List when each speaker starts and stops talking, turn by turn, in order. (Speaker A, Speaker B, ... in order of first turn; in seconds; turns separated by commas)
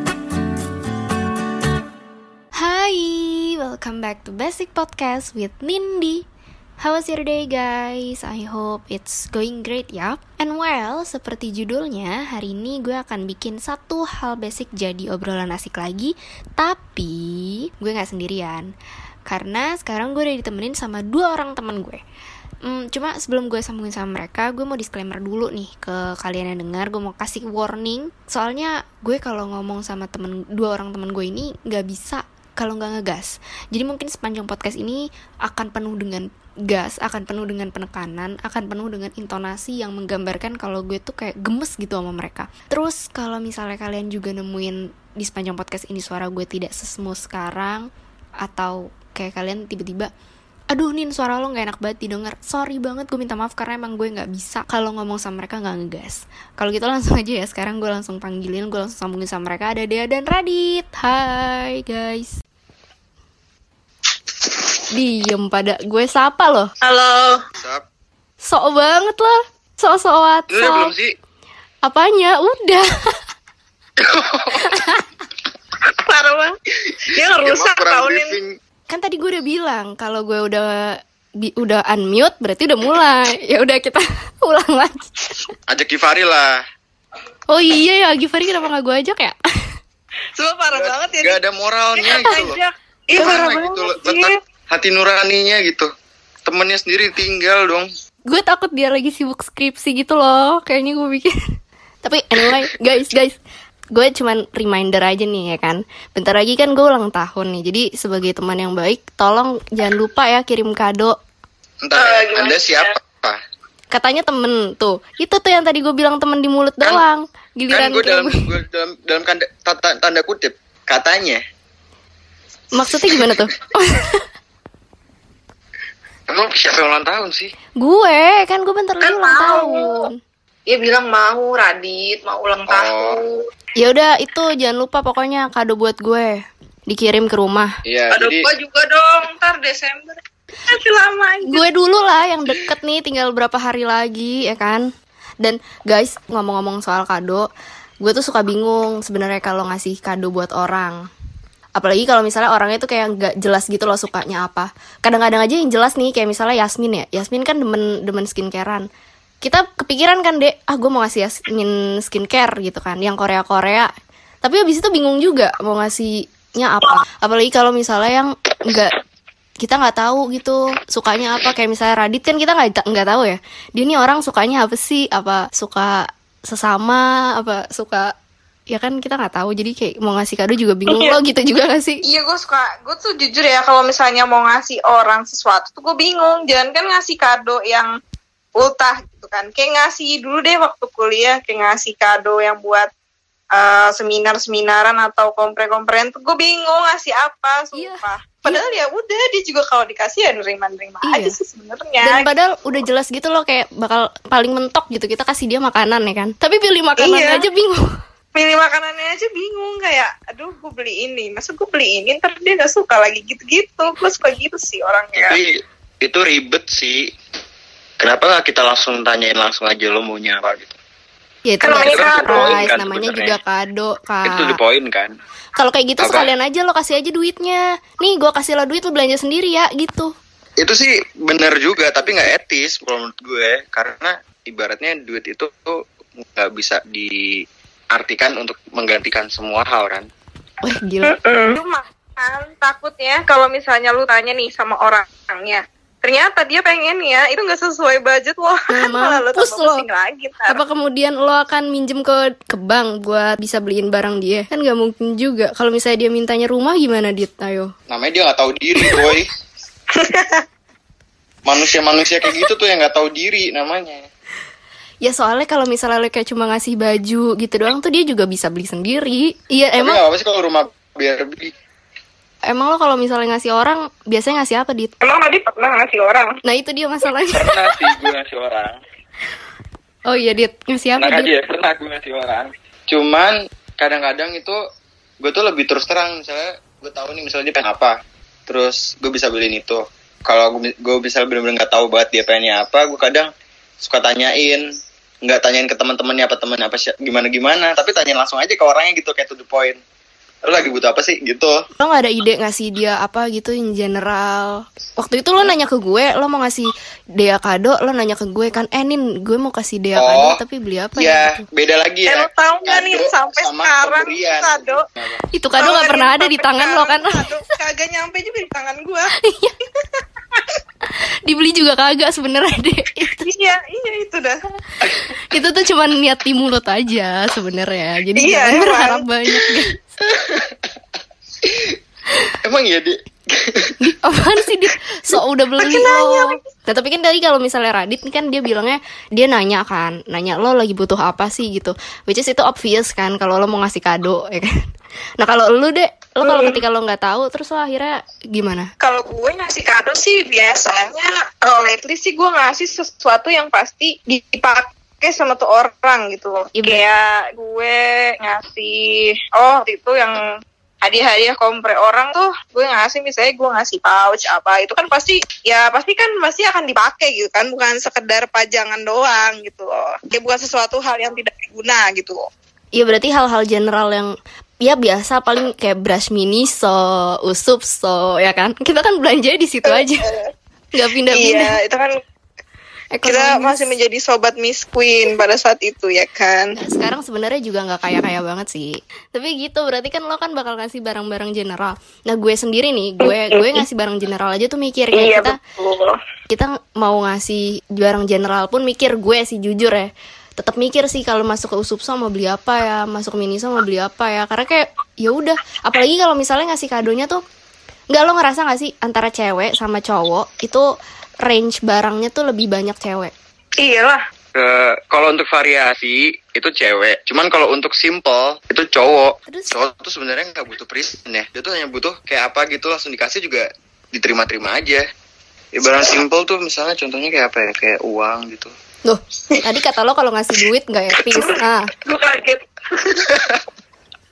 Speaker A: 2.6-6.2, Speaker A: 6.8-18.7, Speaker A: 19.2-22.0, Speaker A: 22.6-47.9, Speaker A: 48.4-50.1, Speaker A: 50.7-62.4, Speaker A: 64.9-66.7, Speaker B: 66.8-67.4, Speaker C: 67.6-67.8, Speaker A: 68.4-70.9, Speaker C: 70.5-71.1, Speaker A: 71.8-72.8, Speaker C: 74.0-74.8, Speaker A: 74.7-75.0, Speaker B: 76.0-76.6, Speaker B: 77.1-78.3, Speaker C: 77.4-78.5, Speaker A: 78.9-85.3, Speaker C: 85.7-86.6, Speaker A: 87.5-89.4, Speaker B: 90.3-91.4, Speaker C: 90.7-92.6, Speaker B: 92.0-94.3, Speaker A: 92.1-92.4, Speaker A: 93.1-93.6, Speaker C: 93.2-95.9, Speaker C: 96.4-97.9, Speaker A: 98.3-101.3, Speaker A: 102.0-103.4, Speaker A: 103.9-111.2, Speaker C: 111.8-113.4, Speaker B: 111.9-112.9, Speaker A: 113.9-118.4, Speaker C: 117.7-121.4, Speaker A: 122.7-124.2, Speaker C: 126.3-127.5, Speaker A: 127.8-130.2, Speaker B: 129.0-130.1, Speaker B: 130.7-133.4, Speaker C: 132.7-133.2, Speaker A: 133.8-137.7, Speaker C: 137.8-138.4, Speaker B: 138.1-141.7, Speaker A: 141.4-144.9, Speaker A: 145.4-147.5, Speaker A: 148.0-151.0, Speaker A: 151.7-158.8, Speaker A: 159.4-163.9, Speaker A: 164.4-168.9, Speaker A: 169.6-178.1, Speaker A: 178.7-182.0, Speaker B: 180.9-181.2, Speaker B: 182.0-187.9, Speaker B: 188.6-192.9, Speaker B: 193.5-202.2, Speaker A: 197.7-198.6, Speaker A: 201.0-201.3, Speaker A: 202.0-207.8, Speaker B: 207.0-207.4, Speaker B: 208.3-215.4, Speaker C: 215.2-217.1, Speaker C: 218.0-220.7, Speaker A: 221.4-224.6, Speaker B: 221.6-222.6, Speaker C: 221.8-223.4, Speaker C: 224.2-225.2, Speaker A: 225.6-230.1, Speaker C: 226.0-226.3, Speaker C: 230.6-240.1, Speaker A: 240.6-241.1, Speaker B: 241.0-250.6, Speaker A: 248.7-249.8, Speaker A: 250.5-257.7, Speaker C: 257.9-259.3, Speaker A: 258.8-259.1, Speaker B: 260.0-260.4, Speaker C: 261.4-264.1, Speaker A: 265.0-270.0, Speaker C: 269.8-271.5, Speaker A: 272.5-274.9, Speaker B: 275.0-276.4, Speaker A: 276.4-277.9, Speaker C: 277.3-278.8, Speaker A: 280.1-281.3, Speaker C: 281.0-284.6, Speaker C: 285.2-287.9, Speaker C: 288.5-293.3, Speaker C: 293.8-294.6, Speaker C: 295.2-299.8, Speaker C: 300.4-301.5, Speaker A: 301.8-311.4, Speaker C: 309.9-310.4, Speaker C: 311.0-315.2, Speaker B: 312.1-314.8, Speaker A: 315.3-317.2, Speaker B: 315.6-319.1, Speaker A: 319.2-319.5, Speaker A: 321.2-323.3, Speaker B: 323.1-324.4, Speaker A: 324.8-329.8, Speaker B: 328.1-329.1, Speaker C: 330.1-330.5, Speaker C: 331.4-331.7, Speaker C: 332.4-333.7, Speaker A: 333.8-344.5, Speaker B: 335.6-336.4, Speaker A: 345.2-348.7, Speaker B: 346.2-346.6, Speaker B: 348.8-360.2, Speaker A: 356.5-356.8, Speaker B: 360.8-372.3, Speaker A: 372.7-374.1, Speaker A: 374.6-380.0, Speaker B: 379.6-380.3, Speaker A: 380.7-381.6, Speaker B: 381.1-381.9, Speaker A: 382.9-383.7, Speaker B: 383.0-386.5, Speaker A: 386.6-395.4, Speaker B: 393.0-393.6, Speaker B: 394.9-395.9, Speaker A: 396.3-407.2, Speaker A: 407.9-410.7, Speaker A: 411.2-413.1, Speaker B: 413.6-414.0, Speaker C: 414.3-424.8, Speaker A: 419.3-419.6, Speaker C: 425.5-428.5, Speaker A: 428.8-431.7, Speaker B: 431.1-433.2